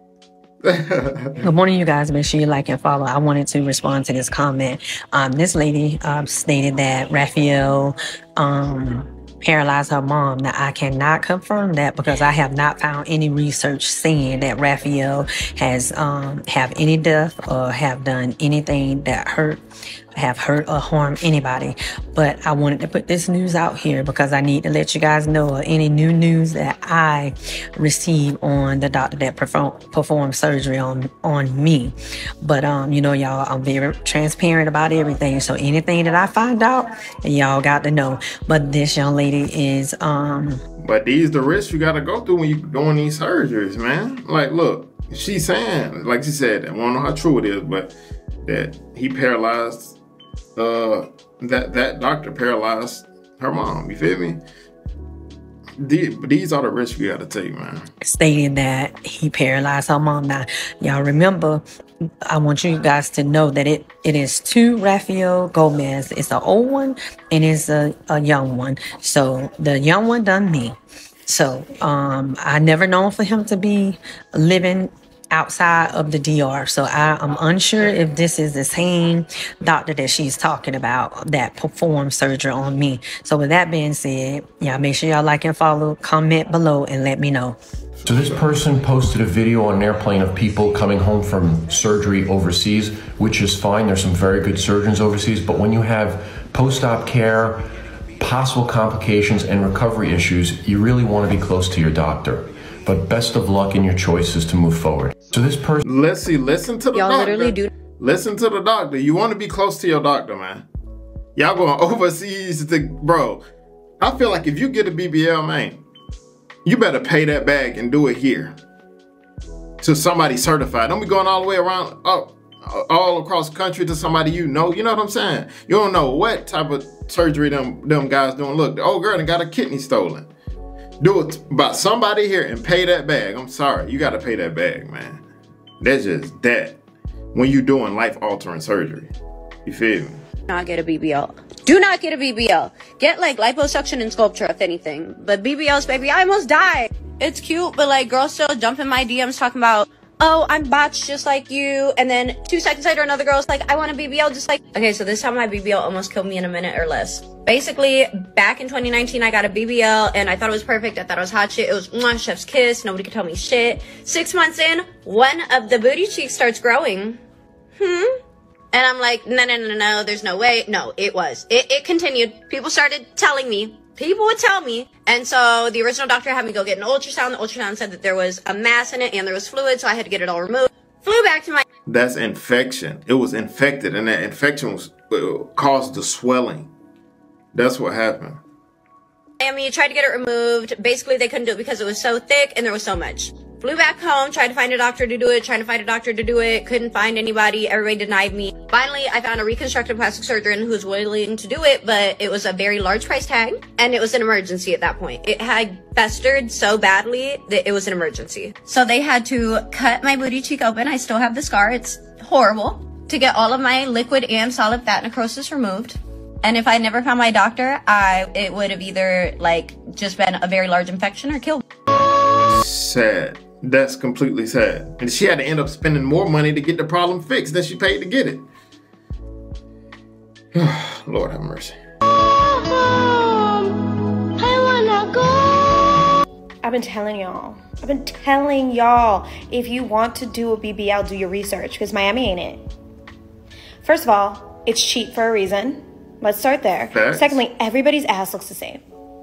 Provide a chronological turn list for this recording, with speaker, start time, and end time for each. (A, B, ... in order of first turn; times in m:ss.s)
0:00.6-0:01.4 A
0:01.4-0:19.6 B
0:20.2-0:40.6 B
0:40.8-0:47.9 A
0:48.4-0:50.0 A
0:50.6-0:54.4 A
0:55.8-0:57.8 A
0:58.0-1:01.6 B
1:02.3-1:10.8 B
1:11.3-1:27.6 B
1:28.0-1:28.7 A
1:28.0-1:37.6 C
1:38.2-1:45.8 C
1:45.8-1:50.6 A
1:46.9-1:47.7 D
1:51.4-1:53.4 A
1:54.0-1:55.8 A
1:56.6-1:58.6 A
1:59.8-2:10.3 A
2:11.0-2:15.2 A
2:15.8-2:16.8 A
2:17.3-2:19.1 A
2:19.6-2:20.2 A
2:20.5-2:47.2 D
2:47.8-2:48.2 D
2:48.7-3:01.6 D
3:01.8-3:06.7 A
3:07.5-3:08.4 A
3:09.4-3:41.6 D
3:42.5-3:48.4 A
3:50.5-3:51.7 A
3:56.6-4:02.6 E
4:03.8-4:08.8 E
4:06.8-4:07.4 A